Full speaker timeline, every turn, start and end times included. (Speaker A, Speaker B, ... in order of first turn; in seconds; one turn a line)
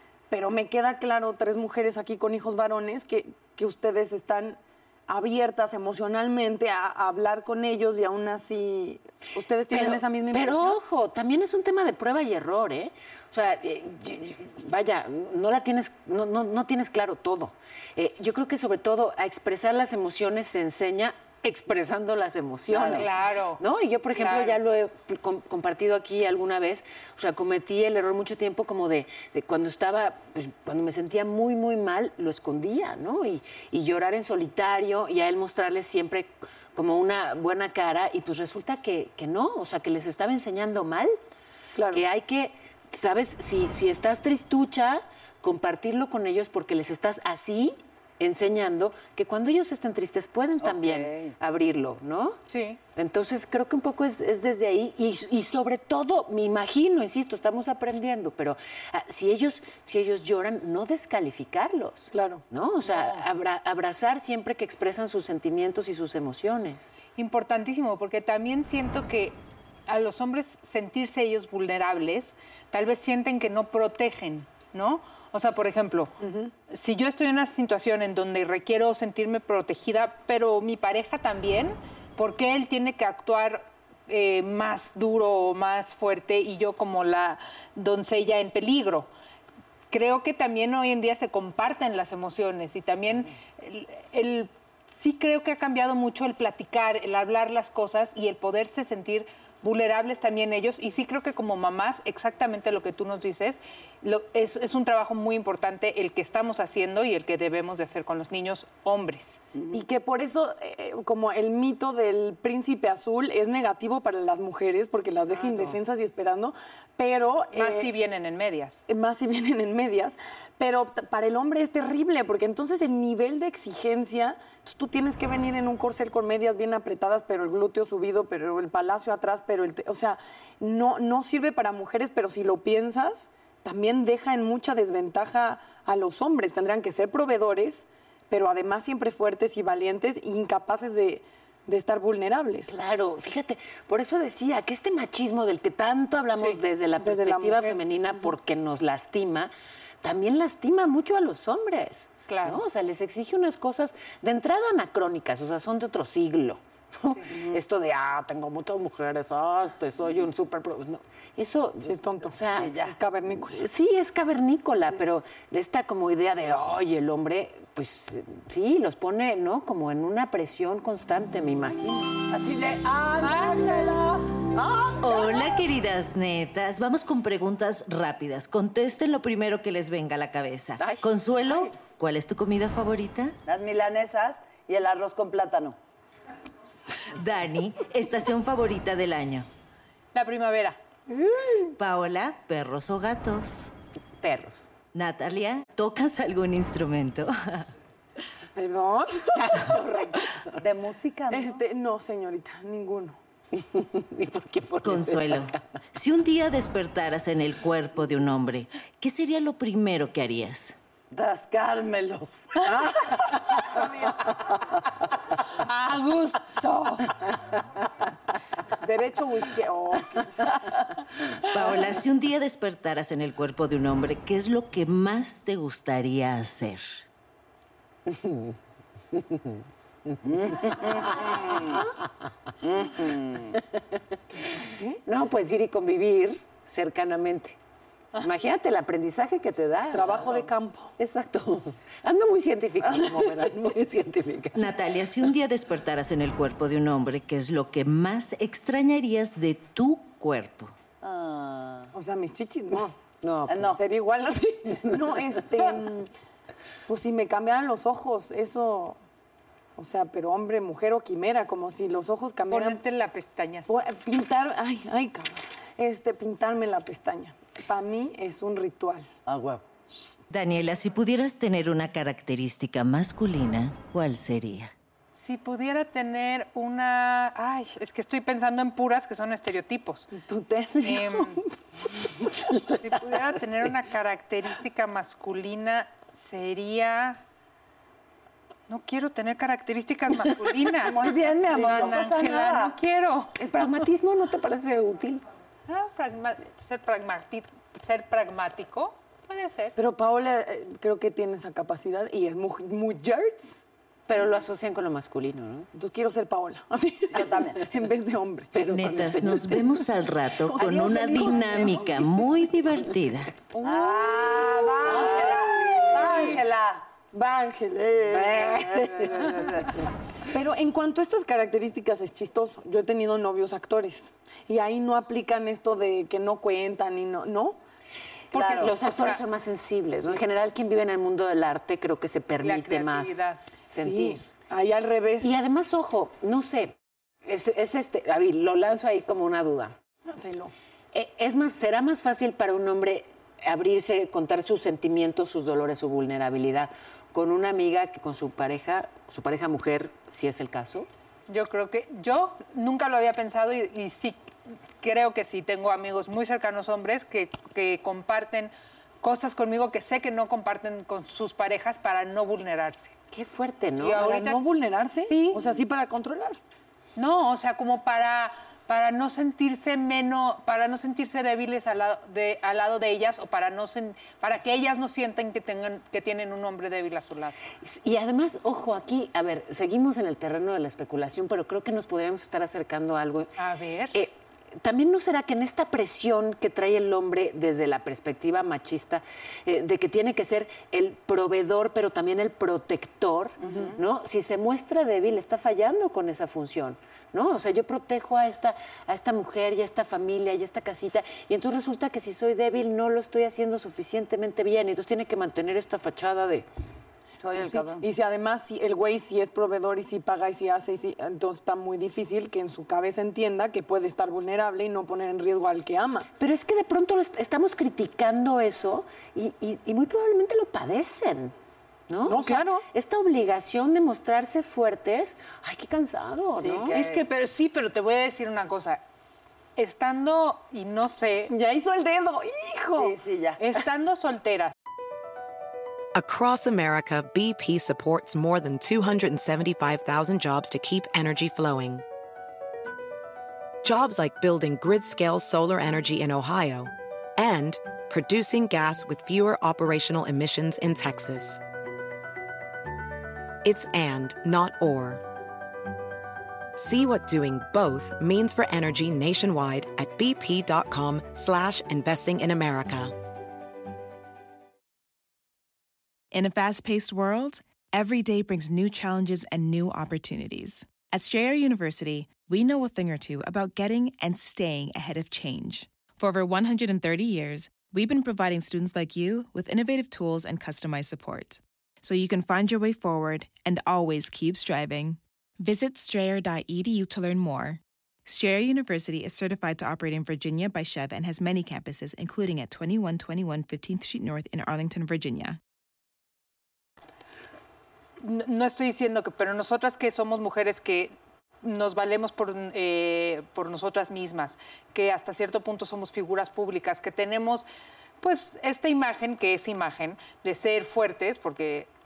Speaker A: 0.3-10.8
Speaker B: 9.7-41.2
Speaker C: 22.7-23.1
Speaker D: 22.8-23.6
Speaker D: 24.1-24.6
Speaker A: 41.8-42.0
Speaker B: 41.9-52.4
Speaker C: 50.6-51.4
Speaker D: 52.5-52.8
Speaker B: 53.0-66.9
Speaker A: 62.1-62.4
Speaker D: 62.8-63.2
Speaker D: 67.2-76.1
Speaker A: 76.2-76.5
Speaker D: 76.7-89.1
Speaker D: 89.9-109.4
Speaker C: 109.5-109.8
Speaker A: 109.7-117.9
Speaker D: 115.3-115.8
Speaker D: 117.5-118.8
Speaker A: 118.9-142.7
Speaker B: 142.7-149.5
Speaker A: 147.0-147.8
Speaker B: 150.0-162.8
Speaker D: 152.3-152.6
Speaker C: 157.3-157.6
Speaker A: 161.8-163.6
Speaker C: 162.6-163.0
Speaker B: 163.5-172.1
Speaker C: 172.3-174.5
Speaker D: 173.2-174.0
Speaker E: 175.0-183.3
Speaker B: 180.8-181.2
Speaker C: 183.5-185.8
Speaker E: 187.2-189.5
Speaker D: 190.1-190.8
Speaker E: 191.8-193.7
Speaker B: 194.2-194.7
Speaker E: 194.9-197.7
Speaker A: 198.6-199.6
Speaker B: 199.3-200.6
Speaker C: 200.6-201.6
Speaker A: 201.3-203.2
Speaker B: 203.6-205.6
Speaker E: 204.8-210.8
Speaker C: 211.1-213.1
Speaker D: 215.5-217.1
Speaker A: 218.8-220.3
Speaker E: 221.5-227.0
Speaker B: 228.1-228.6
Speaker B: 229.1-229.6
Speaker B: 230.1-231.2
Speaker C: 230.2-231.8
Speaker C: 232.6-233.6
Speaker A: 234.3-235.0
Speaker B: 235.1-237.6
Speaker B: 238.2-240.5
Speaker A: 239.9-240.9
Speaker B: 241.0-244.7
Speaker E: 244.6-250.7
Speaker C: 251.0-251.9
Speaker A: 251.9-252.9
Speaker B: 253.2-253.8
Speaker C: 253.5-253.8
Speaker A: 253.8-256.1
Speaker A: 256.9-259.0
Speaker A: 259.8-262.8
Speaker D: 262.5-263.7
Speaker A: 263.7-269.1
Speaker C: 269.3-269.6
Speaker E: 270.3-274.7
Speaker D: 275.2-280.1
Speaker A: 280.1-281.4
Speaker D: 280.8-281.4
Speaker D: 282.8-287.2
Speaker D: 288.7-293.4
Speaker C: 290.8-292.8
Speaker B: 291.5-292.3
Speaker B: 293.4-295.2
Speaker D: 295.7-299.8
Speaker A: 299.8-303.6
Speaker B: 304.1-305.7
Speaker A: 305.7-308.5
Speaker C: 307.1-307.6
Speaker B: 308.5-309.8
Speaker E: 308.6-313.3
Speaker A: 310.4-312.2
Speaker C: 310.8-311.8
Speaker C: 313.6-316.9
Speaker D: 313.6-314.4
Speaker B: 313.6-316.2
Speaker A: 314.9-315.2
Speaker A: 315.8-316.3
Speaker A: 317.1-318.3
Speaker C: 317.8-319.7
Speaker B: 318.1-319.5
Speaker A: 320.3-327.6
Speaker D: 328.3-329.2
Speaker B: 328.3-334.2
Speaker C: 328.4-328.7
Speaker D: 332.4-333.4
Speaker A: 333.8-335.3
Speaker B: 335.2-339.8
Speaker A: 340.1-340.5
Speaker B: 340.9-350.9
Speaker D: 351.3-354.3
Speaker D: 354.8-358.5
Speaker D: 359.0-362.9
Speaker B: 363.1-364.2
Speaker D: 363.8-364.4
Speaker A: 364.0-366.4
Speaker D: 365.0-365.5
Speaker D: 367.0-377.4
Speaker B: 377.6-383.4
Speaker D: 383.4-384.0
Speaker B: 383.9-406.5
Speaker C: 393.4-393.8
Speaker C: 407.2-407.9
Speaker A: 407.4-416.1
Speaker B: 416.2-421.4
Speaker B: 421.9-426.9
Speaker A: 422.0-422.6
Speaker C: 426.4-426.9
Speaker D: 426.7-428.8
Speaker D: 429.6-431.3
Speaker A: 431.3-433.0
Speaker C: 432.8-433.4
Speaker D: 433.4-434.5
Speaker F: 435.9-441.8
Speaker F: 443.6-451.4
Speaker F: 453.4-455.0
Speaker F: 456.6-462.9
Speaker G: 466.1-495.4
Speaker D: 498.0-507.5
Speaker D: 508.0-511.7